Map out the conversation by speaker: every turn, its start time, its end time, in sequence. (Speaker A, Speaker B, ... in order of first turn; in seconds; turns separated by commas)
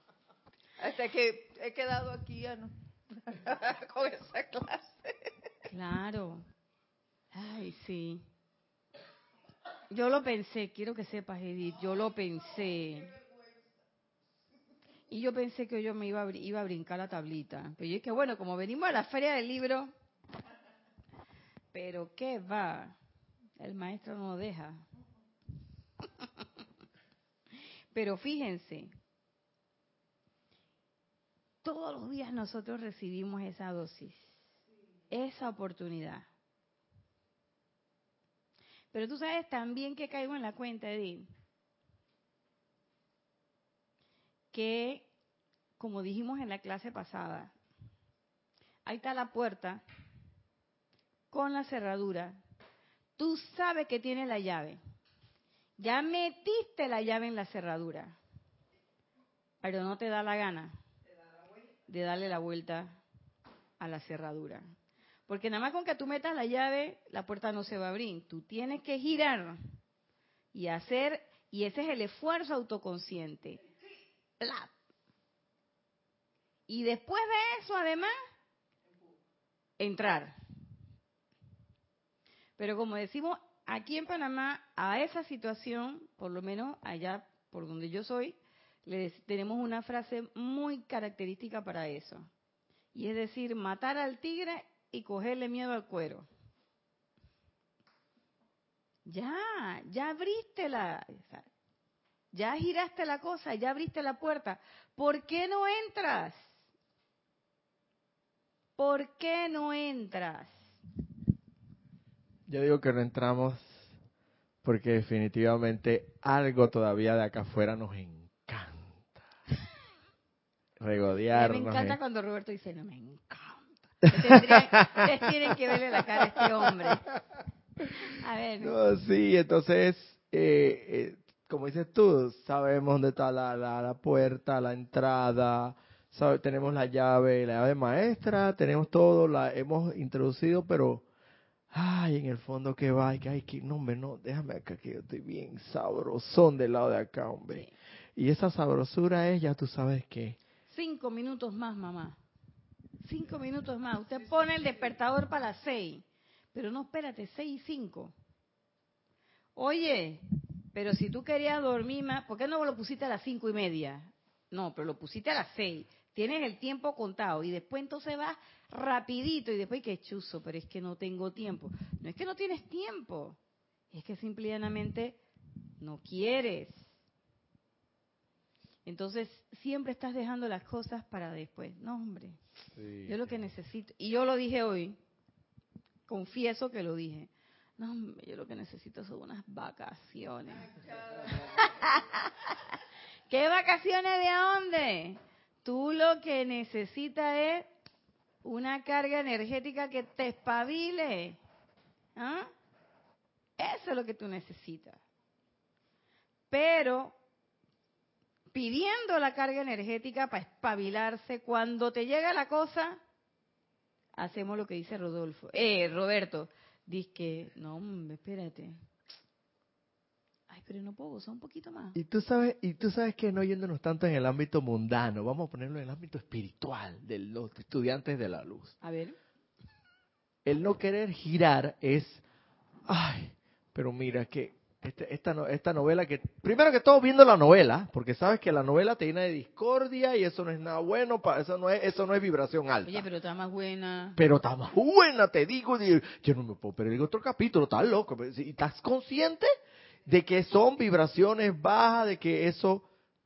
Speaker A: 0.8-5.3, Speaker B: 5.7-6.5, Speaker B: 7.3-8.2, Speaker B: 9.9-13.1, Speaker B: 15.1-19.9, Speaker B: 21.7-23.0, Speaker B: 23.6-24.8, Speaker B: 27.9-28.9, Speaker B: 31.6-34.4, Speaker B: 35.1-36.3, Speaker B: 38.9-41.3, Speaker B: 44.5-45.1, Speaker B: 45.8-47.5, Speaker B: 48.9-49.8, Speaker B: 51.3-52.4, Speaker B: 53.2-54.8, Speaker B: 55.8-58.2, Speaker B: 59.6-60.8, Speaker B: 61.9-63.0, Speaker B: 63.8-64.7, Speaker B: 65.3-69.6, Speaker B: 70.5-73.6, Speaker B: 74.4-74.7, Speaker B: 76.7-78.1, Speaker B: 79.8-80.3, Speaker B: 82.6-92.3, Speaker B: 92.9-96.3, Speaker B: 99.1-101.5, Speaker B: 102.3-106.5, Speaker B: 108.8-110.6, Speaker C: 112.5-113.9, Speaker C: 114.6-119.3, Speaker C: 120.8-122.0, Speaker B: 121.3-127.1, Speaker C: 124.4-125.3, Speaker B: 128.0-128.8, Speaker C: 128.6-141.0, Speaker C: 141.7-150.4, Speaker B: 150.7-152.2, Speaker B: 153.0-158.1, Speaker B: 159.6-173.4, Speaker B: 173.9-175.2, Speaker B: 175.8-176.9, Speaker B: 178.9-182.4, Speaker C: 182.8-183.2, Speaker B: 183.1-185.0, Speaker B: 186.1-192.8, Speaker B: 193.3-197.7, Speaker B: 198.4-201.4, Speaker B: 202.2-202.5, Speaker B: 203.6-205.0, Speaker B: 206.5-207.2, Speaker B: 208.5-213.0, Speaker B: 214.2-218.8, Speaker B: 220.5-222.0, Speaker C: 221.9-228.8, Speaker B: 228.8-229.2, Speaker C: 230.4-232.2, Speaker C: 232.9-243.1, Speaker B: 242.8-244.2, Speaker C: 244.2-249.5, Speaker C: 250.1-252.9